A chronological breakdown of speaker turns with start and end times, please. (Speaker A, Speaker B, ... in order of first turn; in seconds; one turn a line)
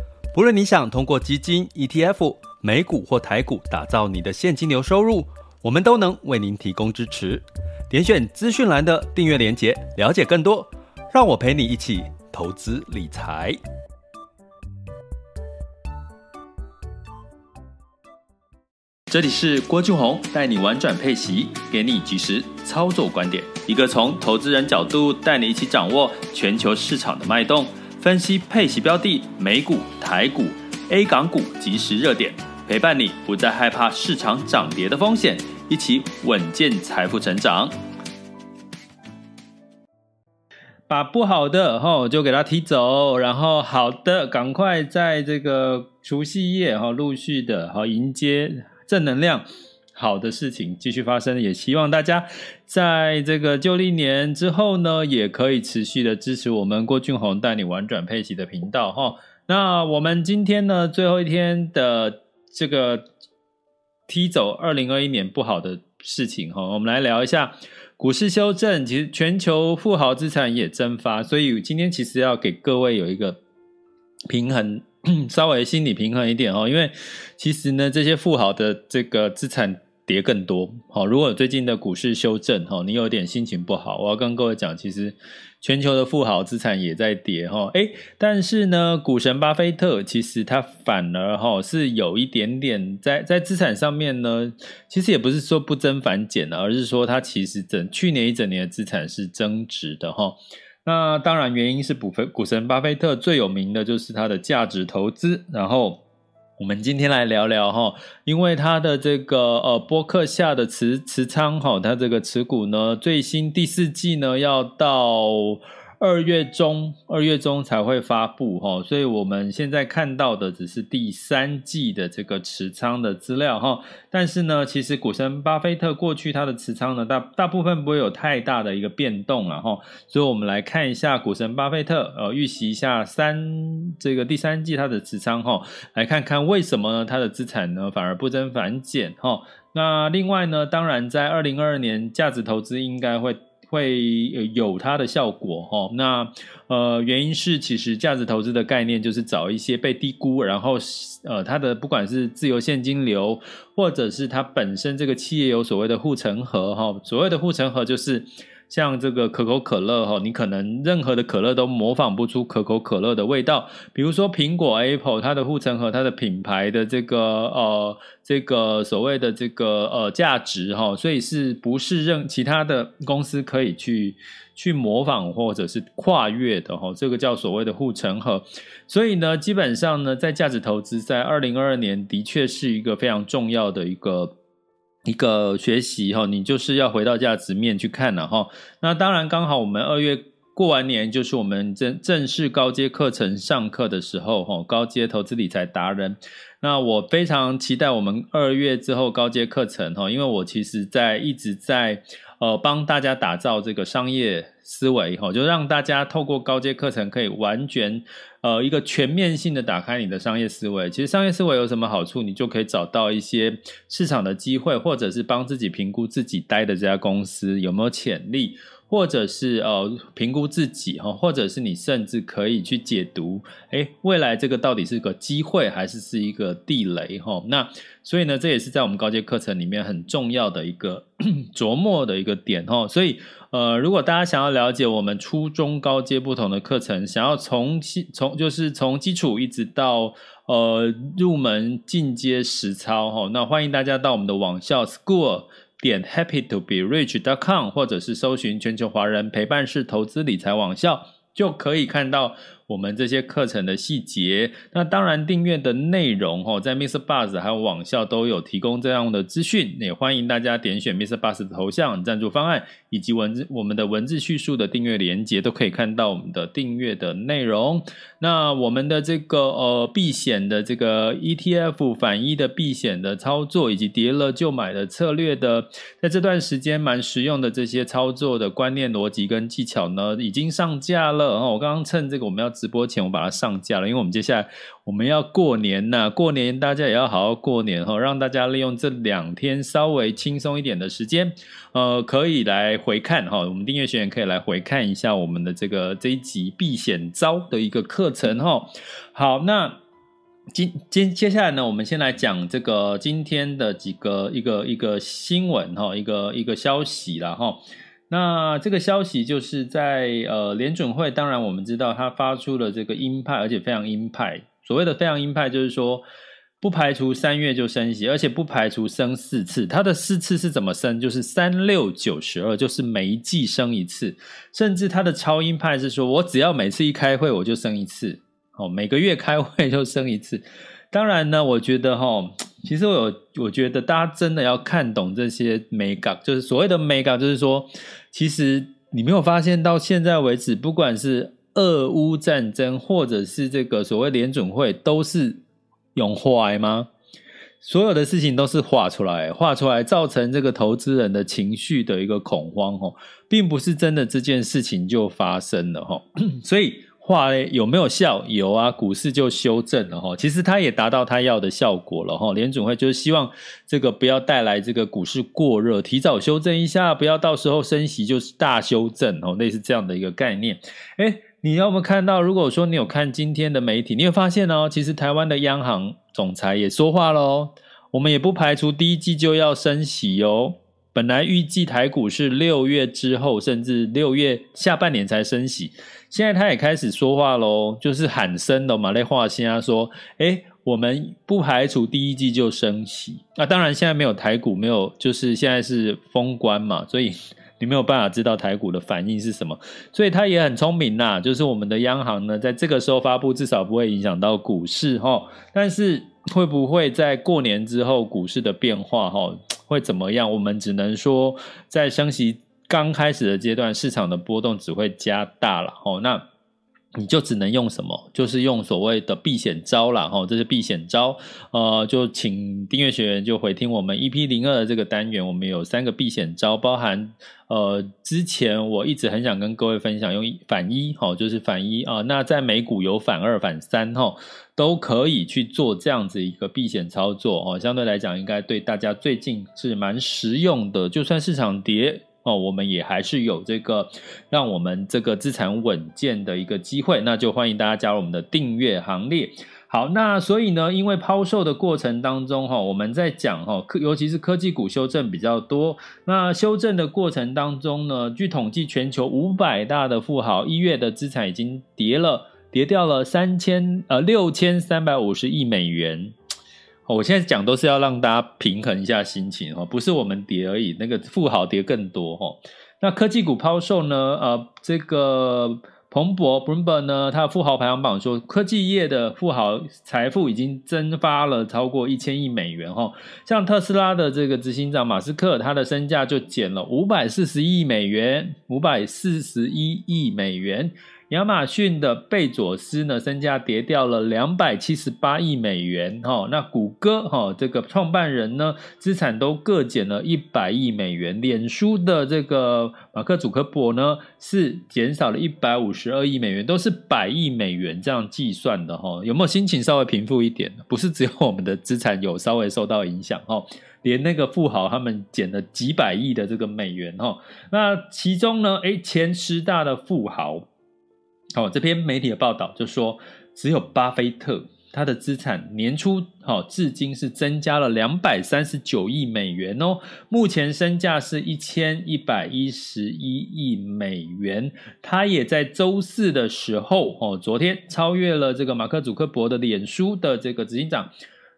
Speaker A: 0.3-13.6
Speaker A: 19.1-37.7
Speaker A: 40.9-63.1
Speaker A: 64.1-73.4
Speaker A: 74.3-106.0
Speaker A: 106.6-184.3
Speaker A: 185.1-299.8
Speaker A: 300.5-316.1
Speaker A: 316.6-345.4
Speaker A: 345.9-346.9
Speaker A: 347.6-416.2
Speaker A: 417.0-466.1
Speaker A: 466.9-520.5
Speaker A: 521.4-540.9